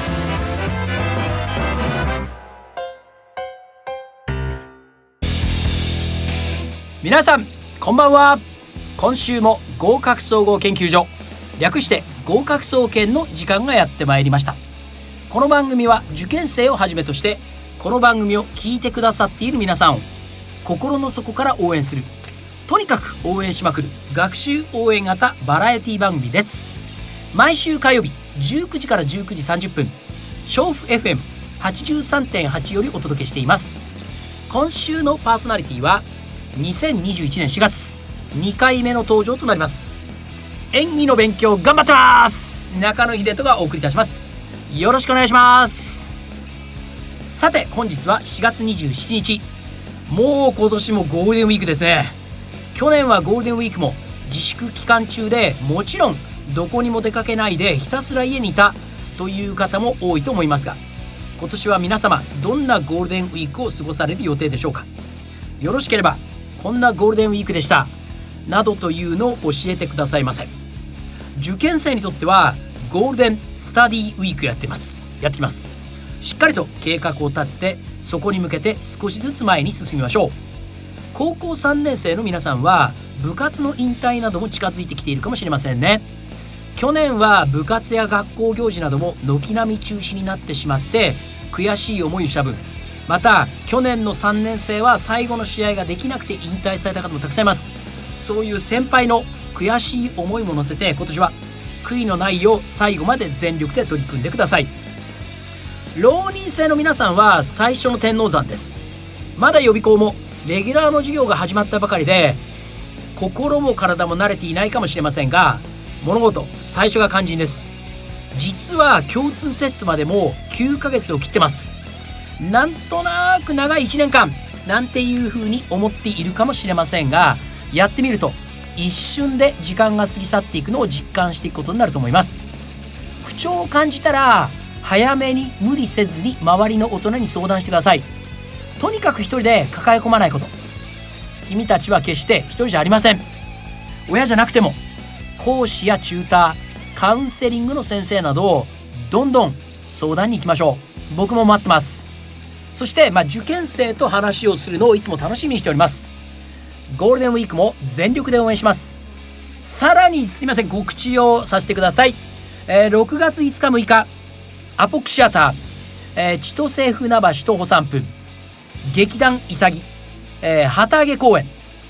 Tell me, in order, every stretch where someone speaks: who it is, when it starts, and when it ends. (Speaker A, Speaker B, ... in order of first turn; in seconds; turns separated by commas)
Speaker A: 7.0-8.4, Speaker A: 9.0-14.6, Speaker A: 15.3-20.1, Speaker A: 20.6-22.1, Speaker A: 22.7-26.8, Speaker A: 27.3-29.9, Speaker A: 30.5-33.9, Speaker A: 34.5-40.0, Speaker A: 40.7-46.1, Speaker A: 47.2-49.4, Speaker A: 50.1-52.1, Speaker A: 52.7-60.8, Speaker A: 61.4-64.9, Speaker A: 65.6-67.9, Speaker A: 68.5-70.5, Speaker A: 71.3-80.3, Speaker A: 81.1-86.0, Speaker A: 86.8-104.7, Speaker A: 106.0-108.8, Speaker A: 109.4-112.4, Speaker A: 113.2-117.7, Speaker A: 118.3-121.8, Speaker A: 122.4-132.5, Speaker A: 133.2-138.1, Speaker A: 138.8-140.5, Speaker A: 141.4-143.2, Speaker A: 144.1-144.8, Speaker A: 145.4-152.1, Speaker A: 152.7-156.1, Speaker A: 156.9-159.0, Speaker A: 159.6-164.1, Speaker A: 164.8-165.6, Speaker A: 166.2-168.1, Speaker A: 168.8-169.9, Speaker A: 170.4-171.5